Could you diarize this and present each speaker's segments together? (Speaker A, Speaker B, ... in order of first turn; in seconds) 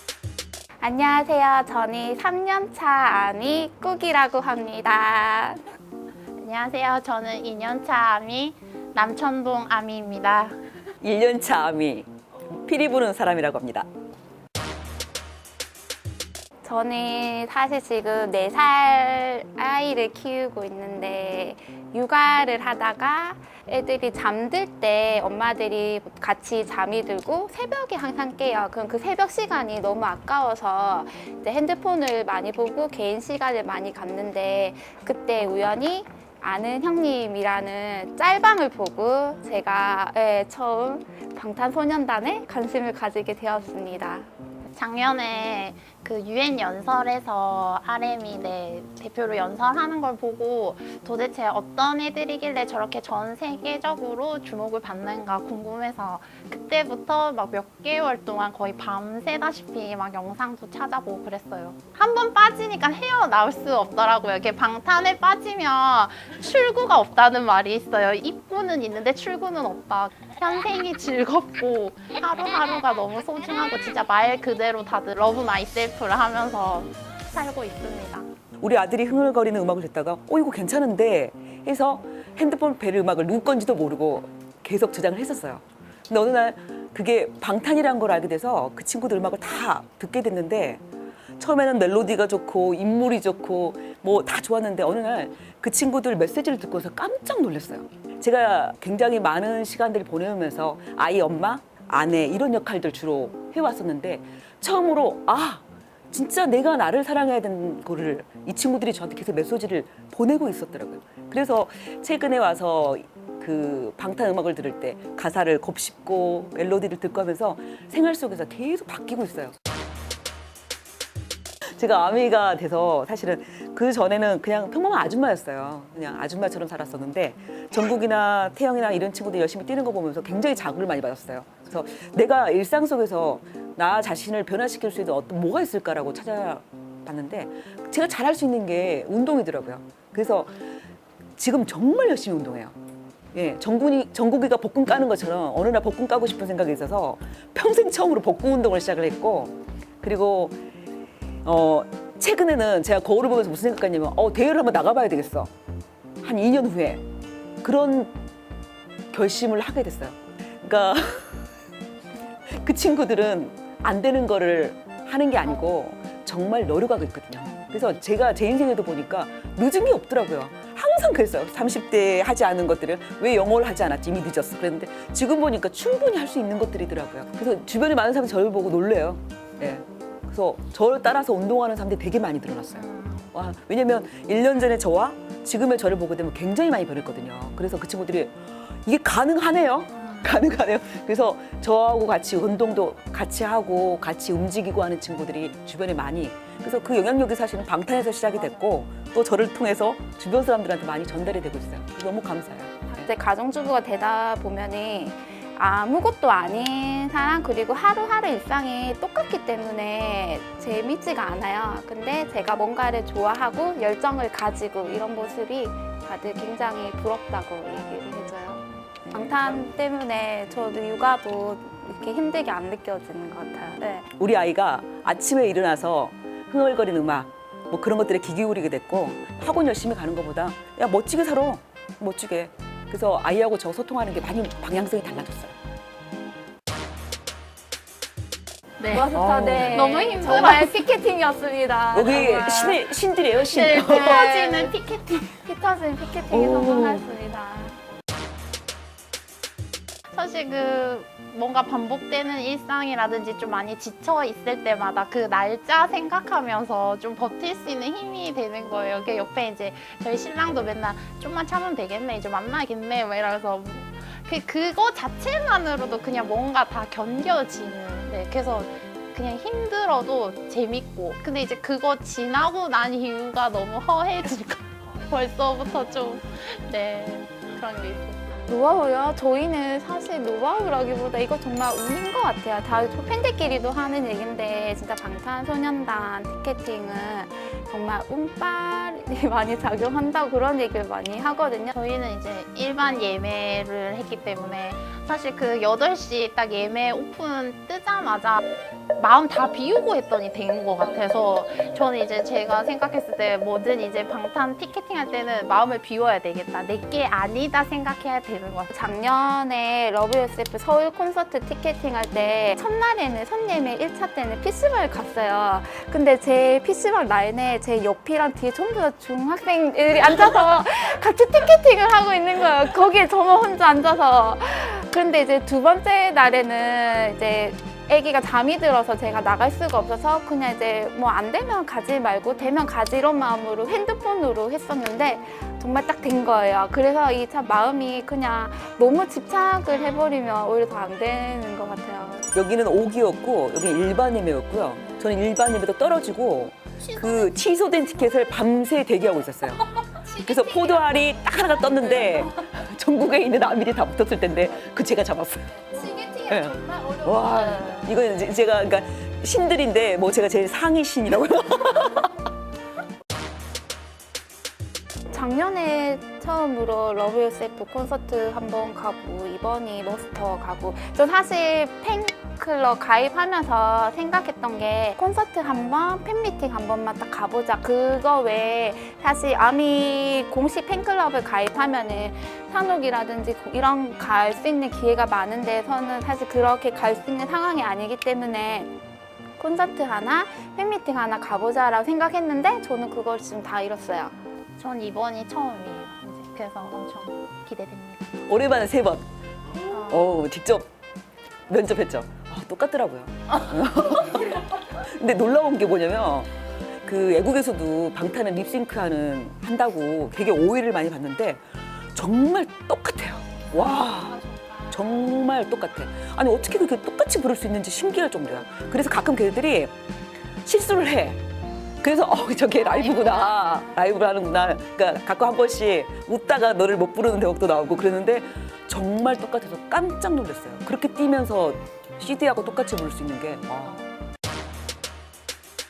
Speaker A: 0.8-5.7, 16.6-44.3, 202.9-224.1, 238.9-242.8, 243.9-244.8, 245.4-247.8, 278.5-291.7, 308.7-342.3, 365.1-388.7, 389.4-394.1
Speaker B: 6.4-10.6, 44.7-78.3, 182.7-183.3, 190.0-190.3, 238.8-239.1, 239.7-240.8, 243.4-245.4, 250.1-278.2, 291.7-298.4, 299.0-308.7, 339.7-340.1, 346.8-347.3, 349.7-351.1, 351.7-352.2, 355.6-357.9, 394.6-398.1, 399.7-400.0, 413.5-414.8, 422.6-423.6, 433.6-433.9
Speaker C: 11.0-13.9, 78.6-90.8, 91.4-119.6, 121.8-140.5, 141.4-142.8, 143.3-150.6, 151.4-155.5, 156.2-157.0, 157.6-158.1, 159.1-161.4, 162.5-203.1, 219.1-219.6, 224.2-235.6, 239.1-239.9, 241.9-244.3, 246.3-247.1, 342.3-349.7, 350.2-355.7, 356.3-362.2, 398.3-399.1, 399.8-400.7, 401.5-406.3, 406.9-411.4, 411.9-414.2, 414.7-419.7, 420.4-421.2, 421.8-433.8